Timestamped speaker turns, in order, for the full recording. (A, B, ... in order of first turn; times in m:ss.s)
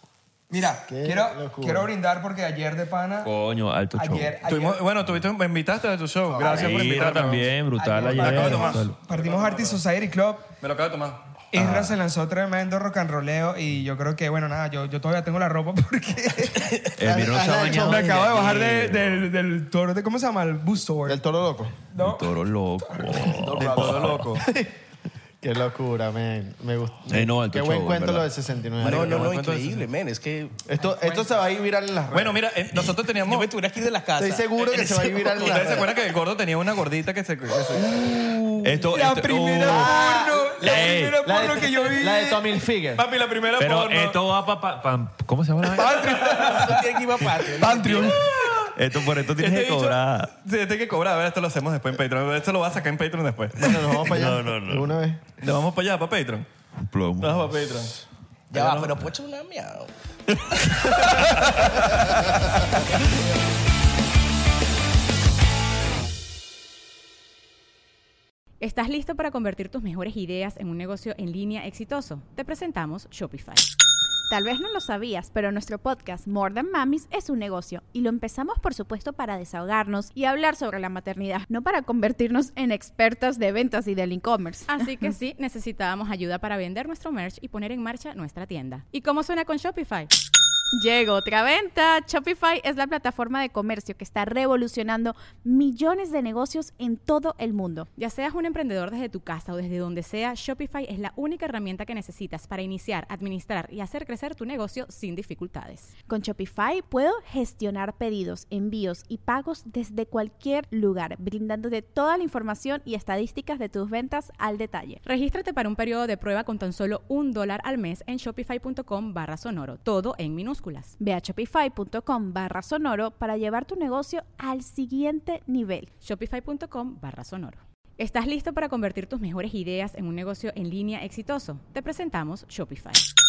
0:00.5-0:03.3 A
0:00.9-0:01.9 B
0:03.2-0:04.4 C
0:03.9-0:04.8 A
0:04.5-0:07.5 D
0:06.4-0:09.0 C
0:06.4-0:10.5 A
0:08.0-0:09.8 D
0:10.6-0:11.2 D
0:11.5-0:16.8 A
0:11.6-0:12.0 C
0:17.0-0:19.3 C
0:17.0-0:18.3 B
0:17.6-0:21.2 A
0:21.1-0:21.8 B
0:21.9-0:22.4 A
0:22.0-0:24.3 C
0:22.9-0:23.4 A
0:23.1-0:24.3 E
0:23.6-0:24.5 D
0:24.4-0:24.8 B
0:25.4-0:29.4 B
0:27.1-0:29.8 C
0:28.8-0:30.6 E
0:30.7-0:32.4 B
0:31.0-0:31.3 A
0:32.1-0:33.5 D
0:33.2-0:35.9 E
0:34.2-0:35.9 B
0:35.4-0:38.0 D
0:38.0-0:42.5 A
0:38.6-0:39.9 C
0:39.7-0:43.0 B
0:40.6-0:41.2 C
0:43.0-0:44.2 D
0:43.6-0:46.3 C
0:45.7-0:46.7 A
0:46.2-0:46.5 D
0:46.3-0:48.2 E
0:47.2-0:48.1 C
0:47.6-0:48.3 A
0:48.2-0:48.7 D
0:48.6-0:50.3 C
0:49.4-0:53.6 D
0:53.6-0:55.2 B
0:53.6-0:55.0 C
0:55.4-0:56.5 D
0:56.8-0:57.6 C
0:57.2-0:57.9 D
0:58.5-0:59.9 E
0:58.5-0:59.1 C
1:00.4-1:01.8 C
1:01.2-1:01.5 D
1:08.6-1:13.7 F
1:14.3-1:24.8 G
1:24.7-1:30.1 F
1:30.8-1:37.9 G
1:38.0-1:45.9 F
1:46.1-1:55.0 G
1:55.0-2:00.9 F
2:01.0-2:05.9 G
2:06.0-2:13.0 F